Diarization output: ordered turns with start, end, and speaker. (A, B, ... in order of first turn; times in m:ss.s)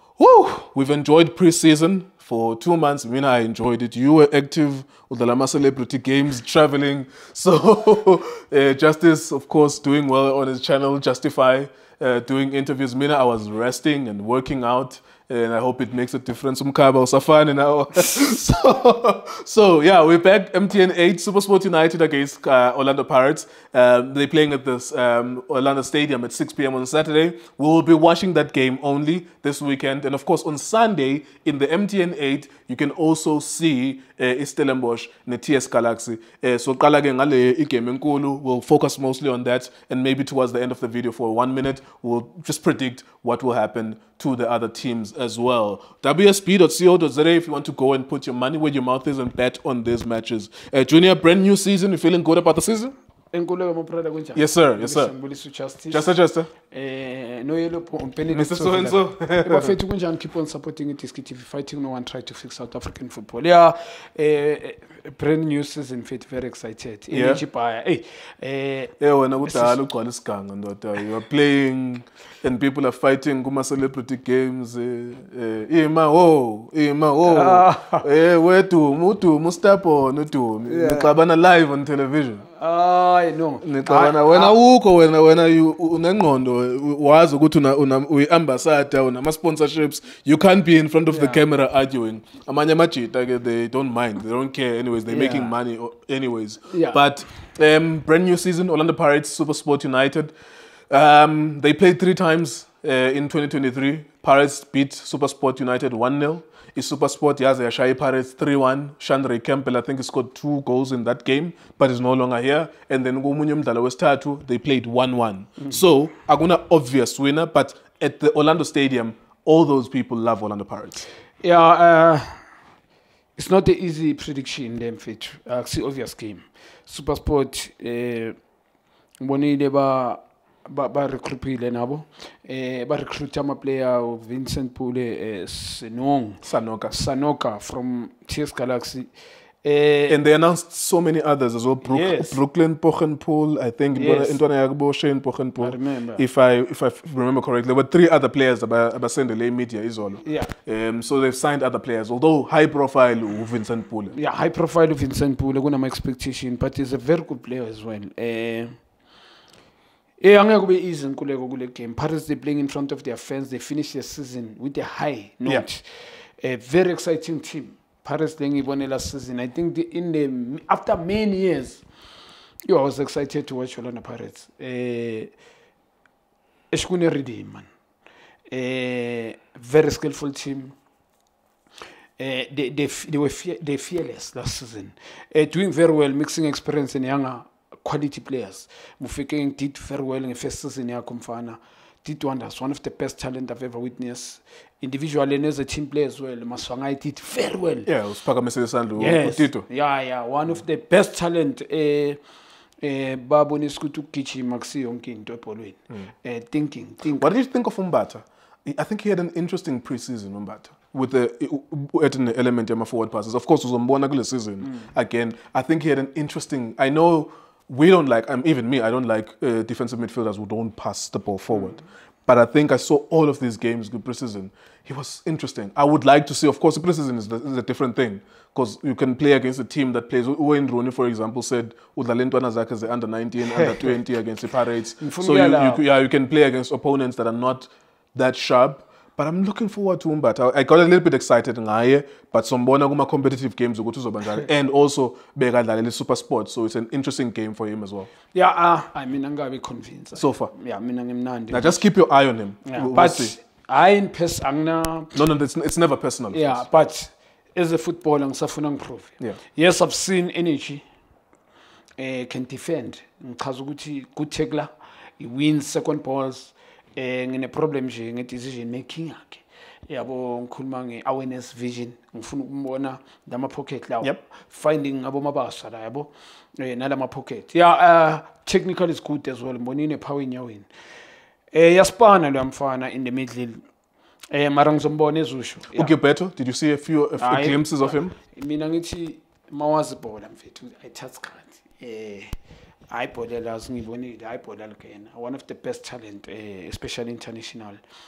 0:00.2-0:52.9 A
0:53.3-0:56.1 B
0:54.4-0:55.1 A
0:55.9-0:56.5 A
0:56.7-1:09.8 B
0:58.3-0:59.7 A
1:07.1-1:07.4 A
1:09.0-1:22.5 A
1:17.2-1:18.0 B
1:20.7-1:21.1 B
1:22.6-1:24.5 B
1:23.6-1:40.3 A
1:31.1-1:31.4 B
1:35.1-1:35.5 B
1:36.7-1:37.0 B
1:40.9-2:01.1 A
2:01.4-2:02.4 B
2:03.4-2:08.4 B
2:09.2-2:19.1 B
2:16.4-2:16.9 A
2:19.6-2:20.2 B
2:20.1-2:34.2 A
2:21.8-2:22.4 B
2:24.0-2:24.4 B
2:25.6-2:26.2 B
2:30.2-2:30.5 B
2:34.1-2:38.7 B
2:40.2-2:45.8 B
2:46.4-2:51.8 B
2:52.7-2:55.3 B
2:56.7-2:57.7 B
2:58.5-3:00.7 B
3:02.2-3:17.9 B
3:17.8-3:19.6 A
3:19.0-3:22.2 B
3:22.8-3:27.3 B
3:27.2-4:08.1 A
3:53.4-3:54.0 B
3:55.0-3:55.8 B
4:08.3-4:11.8 B
4:10.1-4:10.5 A
4:11.5-4:13.3 A
4:12.6-4:15.2 B
4:15.1-4:16.6 A
4:16.3-4:20.8 B
4:22.0-4:40.7 B
4:41.5-4:43.6 B
4:44.3-4:45.9 B
4:45.7-4:48.1 A
4:47.2-4:52.3 B
4:52.9-4:57.8 B